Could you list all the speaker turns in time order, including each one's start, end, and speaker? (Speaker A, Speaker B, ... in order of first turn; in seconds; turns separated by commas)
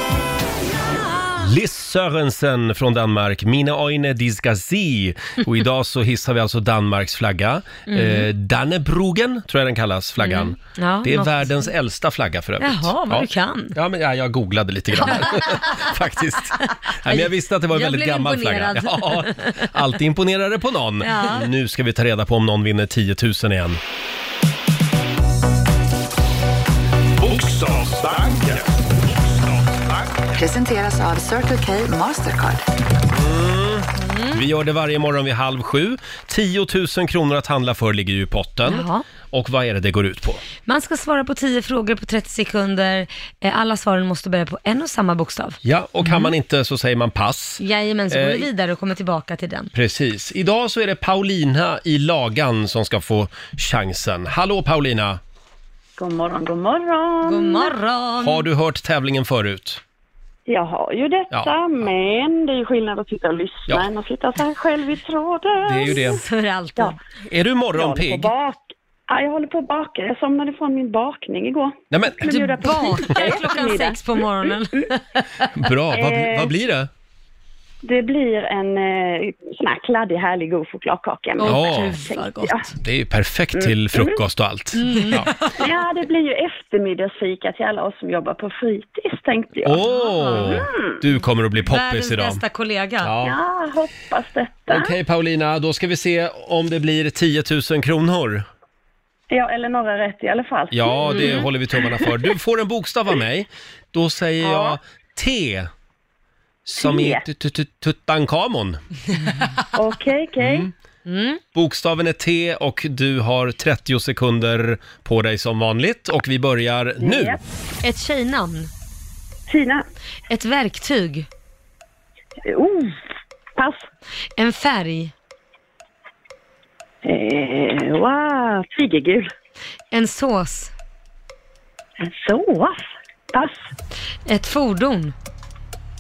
Speaker A: 0.9-1.4, Speaker B: 1.4-23.8, Speaker A: 7.9-8.3, Speaker A: 10.2-11.7, Speaker A: 12.6-13.8, Speaker A: 15.0-15.9, Speaker A: 16.5-19.7, Speaker A: 21.0-21.5, Speaker C: 27.2-30.2, Speaker D: 30.3-32.6, Speaker B: 33.1-40.4, Speaker A: 34.0-34.4, Speaker A: 38.6-39.0, Speaker A: 40.7-46.3, Speaker B: 45.6-48.5, Speaker A: 47.6-49.7, Speaker B: 49.7-55.2, Speaker E: 56.0-57.7, Speaker A: 57.2-58.5, Speaker B: 58.2-59.8, Speaker E: 60.5-66.2, Speaker B: 65.6-66.2, Speaker A: 65.9-67.0, Speaker B: 67.3-68.3, Speaker E: 67.7-74.5, Speaker B: 71.9-72.2, Speaker A: 72.2-75.5, Speaker B: 75.5-76.9, Speaker E: 75.9-76.5, Speaker E: 77.8-82.7, Speaker A: 81.4-82.7, Speaker B: 81.4-82.0, Speaker B: 82.8-85.3, Speaker E: 83.5-84.2, Speaker A: 84.8-85.5, Speaker E: 85.5-91.0, Speaker B: 89.6-92.4, Speaker A: 90.2-90.6, Speaker A: 91.7-93.1, Speaker B: 93.0-93.4, Speaker E: 93.2-95.0, Speaker B: 94.7-98.5, Speaker E: 99.3-102.3, Speaker B: 100.7-105.7, Speaker A: 101.1-101.5, Speaker E: 104.4-104.8, Speaker B: 106.7-108.8, Speaker E: 106.8-107.2, Speaker E: 109.7-110.7, Speaker B: 110.4-110.7, Speaker A: 111.1-111.4, Speaker B: 111.5-117.4, Speaker E: 117.0-117.4, Speaker A: 117.8-118.7, Speaker E: 119.5-119.8, Speaker A: 120.3-121.3, Speaker E: 122.5-123.0, Speaker E: 123.6-123.9, Speaker A: 124.4-125.1, Speaker E: 127.0-129.3, Speaker A: 129.9-130.7, Speaker E: 132.0-132.8, Speaker E: 133.3-133.6, Speaker A: 134.3-135.1